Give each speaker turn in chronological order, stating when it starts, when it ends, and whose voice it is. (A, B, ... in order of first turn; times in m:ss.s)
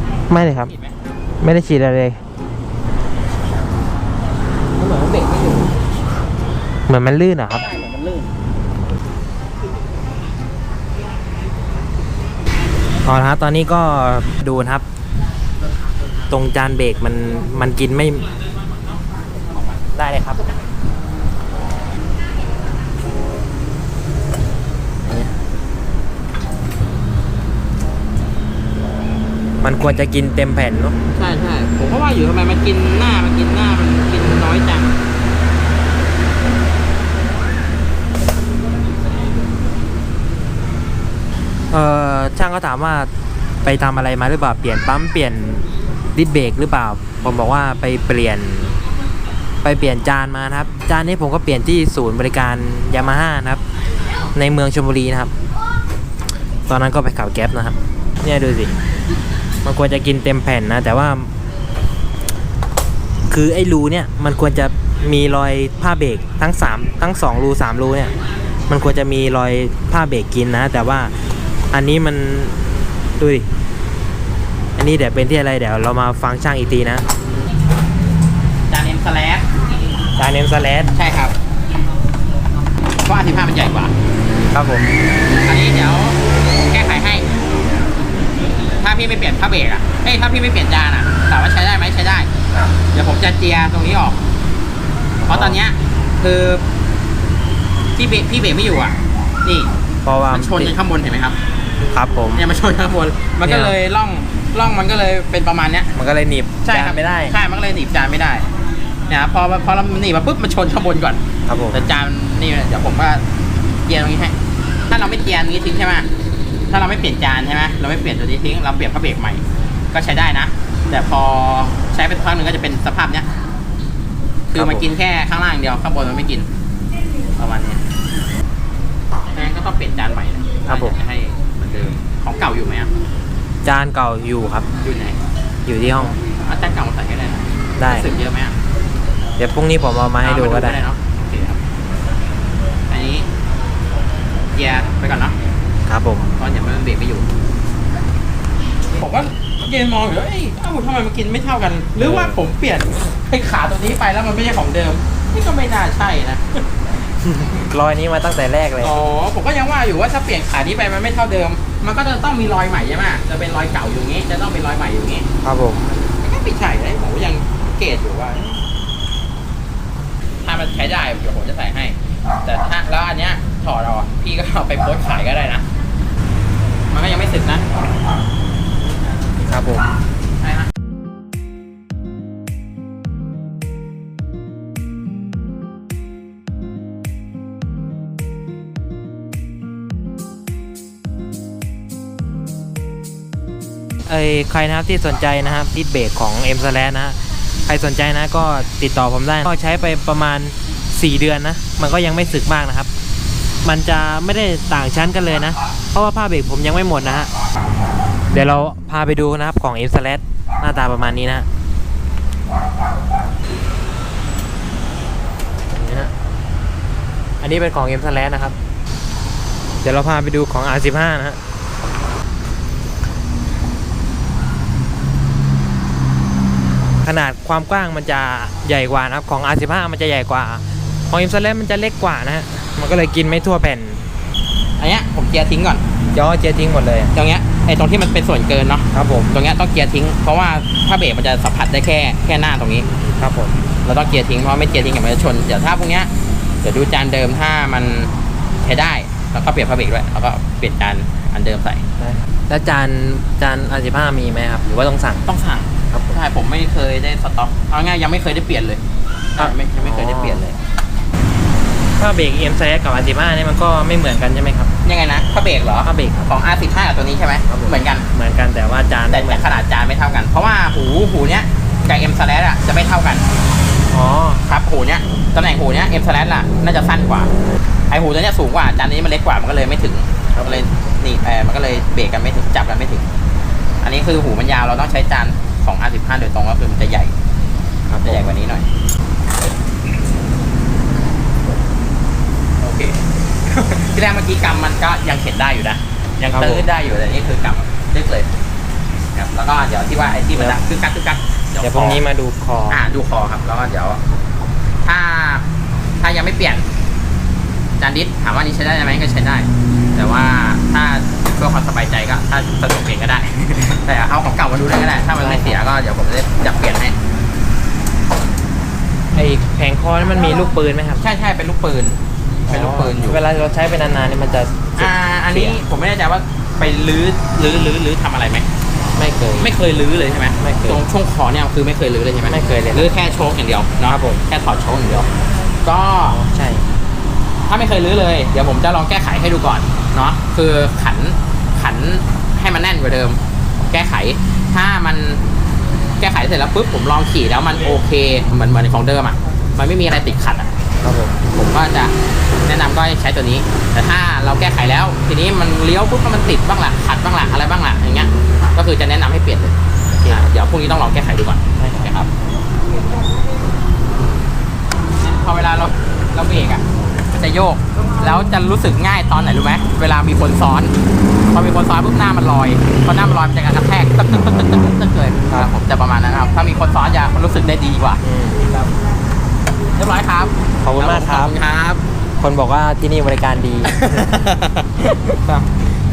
0:00.3-0:00.7 A
0:00.4-0:01.0 B
0:01.4-0:02.2 A
0:04.8-0:05.7 B
0:06.9-0:07.7 A
0:07.6-0:08.3 B
0:13.0-0:14.8 A
0:16.3-0:18.3 A
0:19.9-0:20.4 A
0:29.6-0:31.0 A
0:31.1-0:35.0 B
0:41.7-0:43.1 A
0:43.6-0:48.8 A
0:49.6-0:53.6 A
0:54.3-0:55.3 A
0:56.7-0:58.8 A
0:59.6-1:01.3 A
1:03.3-1:08.1 A
1:08.7-1:11.1 A
1:11.7-1:12.6 A
1:13.2-1:13.5 A
1:14.8-1:17.0 A
1:18.7-1:19.4 B
1:20.2-1:20.9 A
1:20.9-1:21.3 B
1:23.0-1:23.9 B
1:24.5-1:24.9 A
1:25.2-1:27.3 B
1:28.8-1:34.2 B
1:35.2-1:35.6 A
1:35.2-1:36.6 B
1:38.0-1:39.7 B
1:40.0-1:40.8 A
1:40.3-1:41.4 B
1:41.9-1:42.4 A
1:42.3-1:45.9 B
1:43.4-1:43.8 A
1:45.9-1:47.3 A
1:46.6-1:48.5 B
1:49.1-1:51.2 B
1:51.5-1:51.8 A
1:51.7-1:53.2 B
1:53.8-1:54.3 B
1:54.9-1:56.1 B
1:56.7-2:03.3 B
2:04.5-2:04.9 A
2:04.5-2:06.5 B
2:07.4-2:07.8 B
2:09.3-2:12.9 B
2:10.7-2:11.0 A
2:13.6-2:14.7 A
2:14.8-2:15.2 B
2:15.7-2:16.2 A
2:16.2-2:18.6 B
2:17.8-2:18.1 A
2:19.4-2:20.8 A
2:20.2-2:21.6 B
2:22.9-2:23.3 B
2:24.5-2:25.4 B
2:25.9-2:26.3 A
2:26.4-2:27.3 B
2:29.0-2:36.6 B
2:32.0-2:32.4 A
2:37.2-2:38.9 A
2:38.8-2:45.2 B
2:45.4-2:45.9 A
2:46.2-2:48.6 B
2:50.4-2:55.7 B
2:56.9-2:57.7 B
2:59.5-2:59.9 A
3:00.4-3:00.7 B
3:14.1-3:22.9 A
3:23.6-3:27.3 A
3:28.3-3:31.5 A
3:35.7-3:36.1 A
3:37.4-3:38.6 A
3:39.8-3:41.4 A
3:47.0-3:54.0 A
3:54.8-3:55.8 B
3:56.1-3:57.1 A
3:57.1-4:02.9 B
3:58.9-3:59.3 A
4:03.0-4:03.5 A
4:03.8-4:06.1 B
4:06.6-4:08.1 B
4:08.6-4:11.8 B
4:12.0-4:15.2 A
4:15.2-4:18.8 B
4:19.4-4:20.6 B
4:19.4-4:20.5 A
4:22.0-4:24.7 A
4:24.8-4:28.0 B
4:25.8-4:26.3 A
4:27.5-4:29.6 A
4:29.1-4:33.2 B
4:33.9-4:34.5 A
4:34.4-4:37.3 B
4:37.9-4:43.0 B
4:40.4-4:40.6 A
4:43.8-4:47.1 B
4:47.9-4:48.3 A
4:48.0-4:48.7 B
4:52.6-4:58.3 B
4:56.3-4:56.7 A
4:59.1-5:02.0 B
5:01.6-5:02.9 A
5:02.7-5:04.0 B
5:04.8-5:05.4 B
5:06.0-5:06.6 B
5:07.8-5:16.9 B
5:15.2-5:15.6 A
5:19.1-5:21.0 A
5:21.0-5:23.2 B
5:22.5-5:25.6 A
5:24.8-5:28.5 B
5:29.0-5:29.5 A
5:29.4-5:35.1 B
5:30.4-5:30.8 A
5:32.3-5:32.9 A
5:33.9-5:34.2 A
5:35.6-5:36.2 B
5:36.0-5:36.6 A
5:37.5-5:45.2 B
5:46.0-5:50.5 B
5:50.8-5:51.2 A
5:51.2-5:51.9 B
5:52.4-6:02.1 B
6:00.0-6:00.3 A
6:01.6-6:01.9 A
6:05.0-6:10.7 B
6:11.3-6:18.7 B
6:18.0-6:18.4 A
6:19.8-6:21.8 B
6:20.6-6:21.4 A
6:22.2-6:24.3 A
6:23.6-6:24.7 B
6:25.0-6:25.4 A